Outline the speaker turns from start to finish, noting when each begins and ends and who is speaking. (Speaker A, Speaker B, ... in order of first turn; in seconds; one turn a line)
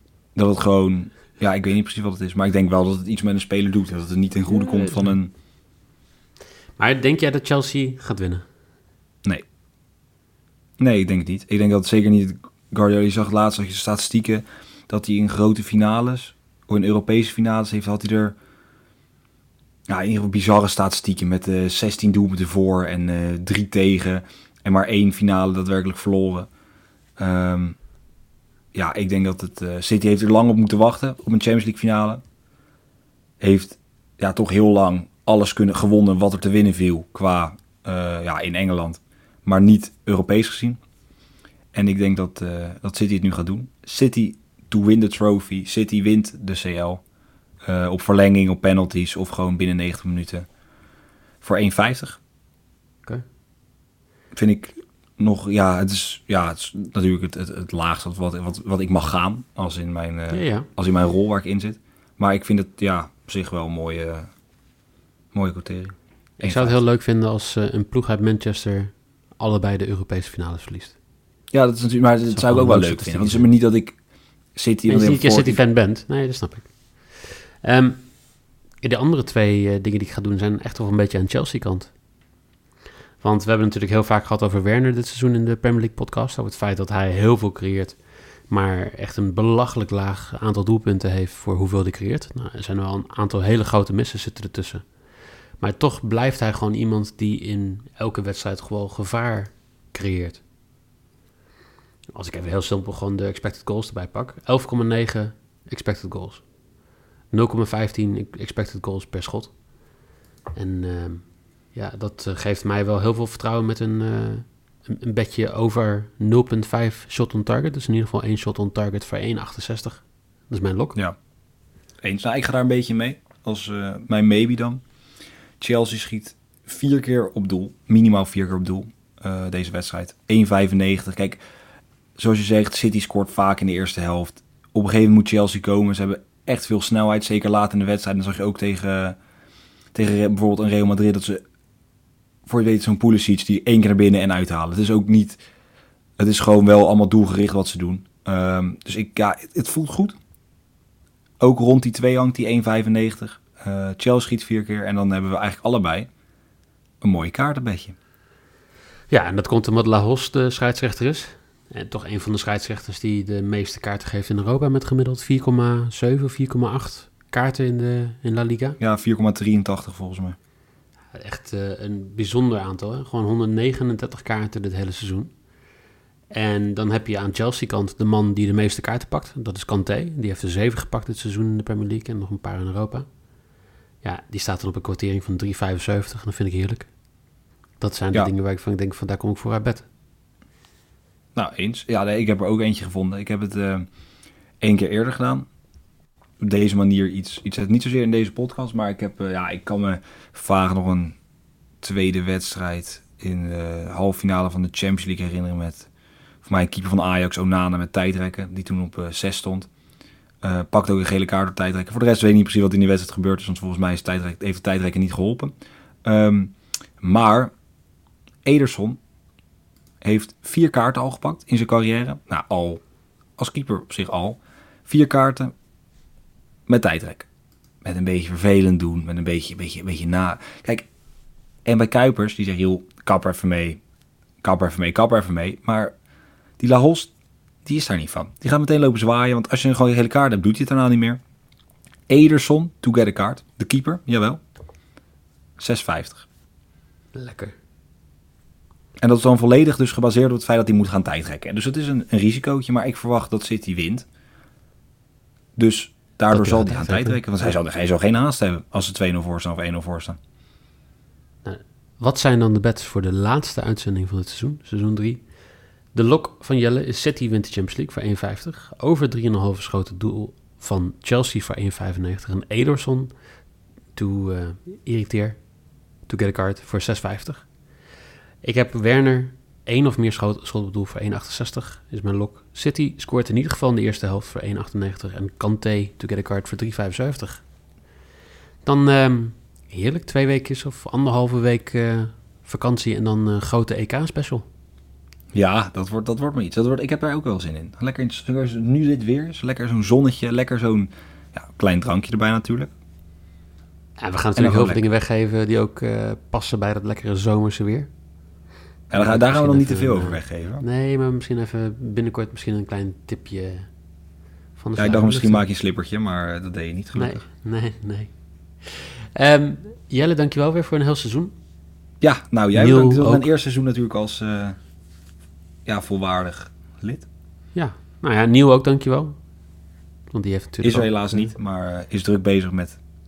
Speaker A: 0.3-5.3
Speaker B: 4.5-5.2
Speaker B: 6.8-8.5
Speaker A: 10.8-18.4
Speaker A: 19.9-26.5
Speaker A: 27.2-27.8
Speaker A: 28.7-32.2
Speaker A: 33.4-40.8
Speaker A: 41.7-47.0
Speaker A: 47.6-50.5
Speaker A: 51.4-52.2
Speaker A: 54.3-64.3
Speaker B: 60.3-60.7
Speaker A: 65.3-66.8
Speaker B: 66.4-71.0
Speaker A: 71.5-74.0
Speaker B: 72.3-73.5
Speaker A: 74.5-75.6
Speaker B: 74.9-78.2
Speaker B: 78.7-82.0
Speaker B: 83.2-94.9
Speaker B: 95.6-100.4
Speaker B: 102.1-106.5
Speaker B: 107.3-109.6
Speaker B: 110.5-121.0
Speaker A: 122.0-124.8
Speaker A: 125.6-131.4
Speaker A: 132.2-139.2
Speaker A: 139.9-141.4
Speaker A: 142.5-145.4
Speaker A: 146.2-150.2
Speaker A: 151.4-156.1
Speaker A: 157.0-157.9
Speaker B: 159.1-168.8
Speaker A: 168.8-170.4
Speaker B: 171.1-175.3
Speaker B: 176.3-183.1
Speaker B: 184.0-186.9
Speaker B: 187.8-189.9
Speaker A: 191.3-193.9
Speaker A: 194.6-195.5
Speaker A: 196.4-201.2
Speaker A: 201.8-205.9
Speaker A: 206.4-209.7
Speaker A: 210.4-215.5
Speaker A: 216.1-217.5
Speaker A: 218.4-219.0
Speaker A: 220.0-222.8
Speaker A: 223.4-225.5
Speaker A: 226.7-227.3
Speaker A: 227.8-230.9
Speaker A: 231.7-233.8
Speaker A: 234.4-235.9
Speaker A: 236.6-237.1
Speaker A: 237.7-241.2
Speaker A: 242.1-244.4
Speaker A: 245.6-246.2
Speaker B: 247.1-247.6
Speaker A: 249.0-254.1
Speaker A: 255.6-260.2
Speaker B: 256.3-257.6
Speaker B: 261.4-265.3
Speaker B: 265.9-273.2
Speaker B: 273.9-275.5
Speaker B: 276.0-277.5
Speaker B: 278.4-287.4
Speaker B: 288.6-294.5
Speaker A: 295.3-302.7
Speaker B: 304.0-307.9
Speaker A: 304.4-304.8
Speaker A: 308.9-310.6
Speaker B: 308.9-313.7
Speaker B: 314.6-315.4
Speaker A: 314.8-317.2
Speaker B: 316.9-321.4
Speaker A: 322.0-324.6
Speaker B: 322.5-323.3
Speaker A: 325.7-327.1
Speaker B: 327.5-329.2
Speaker B: 330.1-331.3
Speaker A: 330.6-332.8